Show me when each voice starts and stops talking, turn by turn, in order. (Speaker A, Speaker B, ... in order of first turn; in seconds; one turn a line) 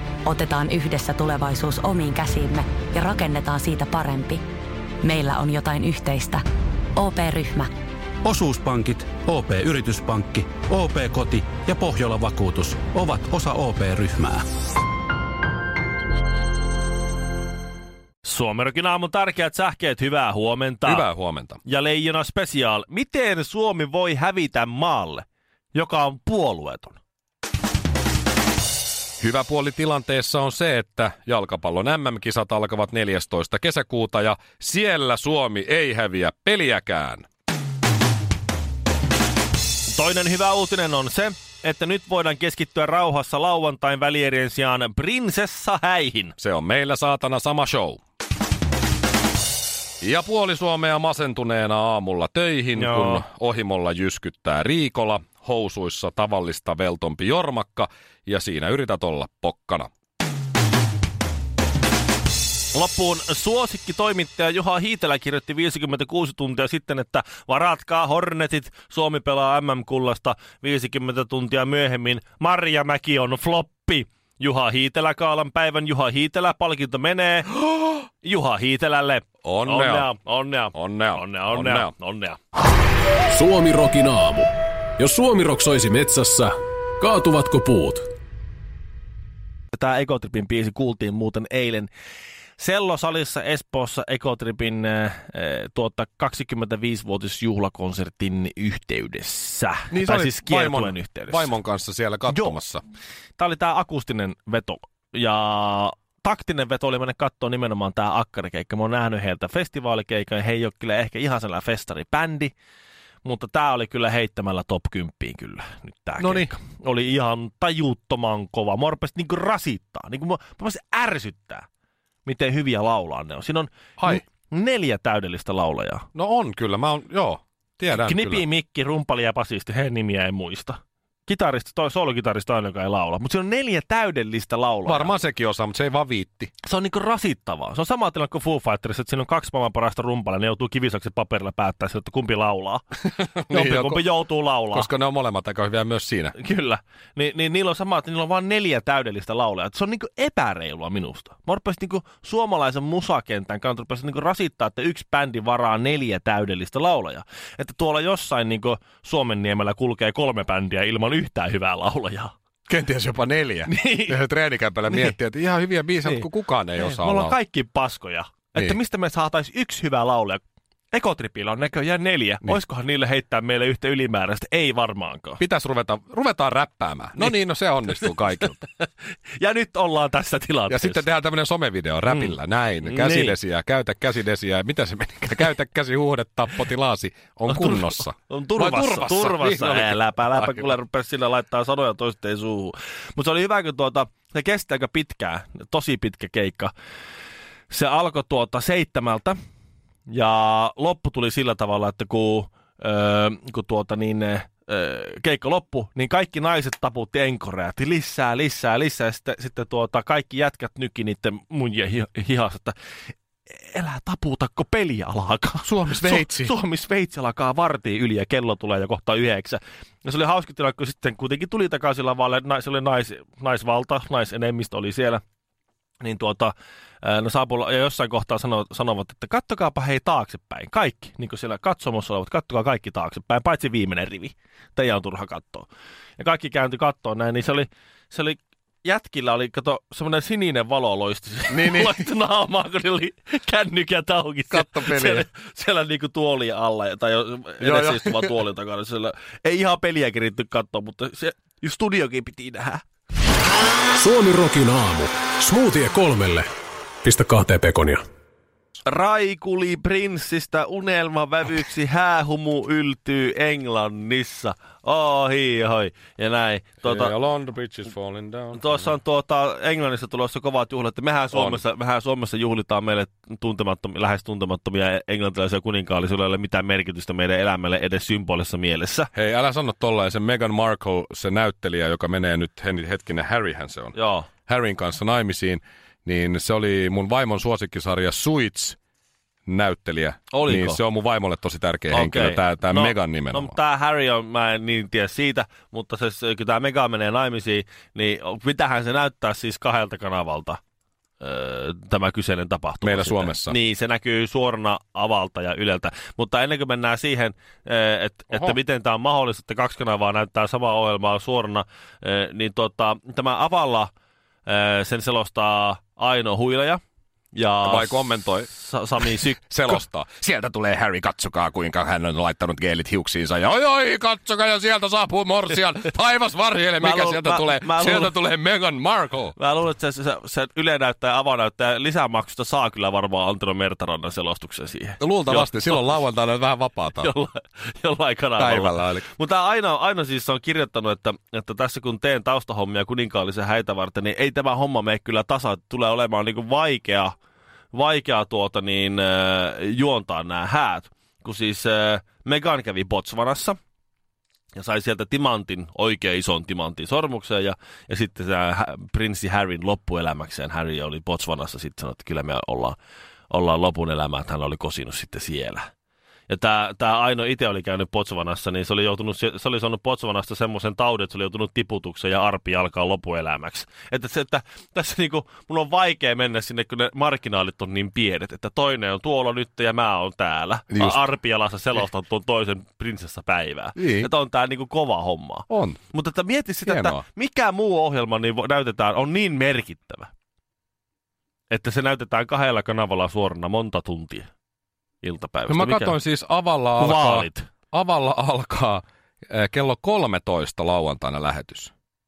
Speaker A: 0.2-4.4
Speaker A: 5.0-6.4
Speaker A: 7.0-7.7
Speaker B: 8.2-14.4
Speaker C: 18.2-21.1
Speaker D: 20.9-21.6
Speaker C: 21.6-27.0
Speaker D: 29.2-37.3
Speaker C: 39.9-46.4
Speaker D: 46.4-48.0
Speaker D: 50.0-59.9
Speaker C: 52.8-53.2
Speaker C: 62.7-77.5
Speaker C: 78.2-82.4
Speaker D: 79.4-80.1
Speaker D: 80.7-81.9
Speaker E: 83.3-88.0
Speaker C: 89.7-91.9
Speaker C: 92.6-101.5
Speaker D: 99.9-102.8
Speaker C: 102.3-102.5
Speaker C: 103.4-112.5
Speaker C: 113.2-121.7
Speaker D: 116.2-116.5
Speaker C: 122.2-126.1
Speaker D: 126.2-128.5
Speaker C: 127.9-135.1
Speaker D: 134.9-136.5
Speaker C: 136.6-142.8
Speaker D: 143.1-144.1
Speaker C: 143.5-144.9
Speaker D: 144.7-146.3
Speaker C: 146.3-162.3
Speaker D: 162.7-167.4
Speaker C: 163.7-164.2
Speaker C: 164.9-165.2
Speaker C: 166.0-175.4
Speaker D: 175.4-178.6
Speaker C: 177.9-181.0
Speaker D: 180.7-190.8
Speaker C: 182.1-183.4
Speaker C: 187.5-196.7
Speaker C: 197.7-199.4
Speaker C: 200.1-212.8
Speaker C: 213.6-225.2
Speaker D: 215.6-216.5
Speaker C: 226.0-252.8
Speaker D: 241.5-242.1
Speaker D: 244.5-245.3
Speaker D: 247.6-248.4
Speaker E: 254.0-256.5
Speaker E: 257.0-258.0
Speaker C: 258.9-267.1
Speaker D: 266.8-268.9
Speaker C: 268.5-279.1
Speaker D: 271.3-271.6
Speaker D: 279.1-288.8
Speaker C: 283.9-284.3
Speaker D: 289.5-293.6
Speaker C: 290.3-290.8
Speaker C: 291.9-300.6
Speaker C: 301.2-313.9
Speaker D: 302.8-303.6
Speaker C: 314.5-316.8
Speaker C: 317.3-319.8
Speaker D: 317.6-329.4
Speaker C: 326.8-328.1
Speaker C: 329.4-336.0
Speaker D: 335.0-337.1
Speaker C: 336.9-347.2
Speaker D: 338.4-339.1
Speaker C: 347.7-353.6
Speaker C: 354.6-362.8
Speaker C: 363.3-365.7
Speaker C: 366.3-390.1
Speaker D: 380.7-381.0
Speaker D: 383.8-384.1
Speaker D: 385.5-385.8
Speaker D: 386.6-387.0
Speaker C: 391.5-394.3
Speaker C: 395.0-395.9
Speaker D: 395.5-401.7
Speaker C: 396.8-397.5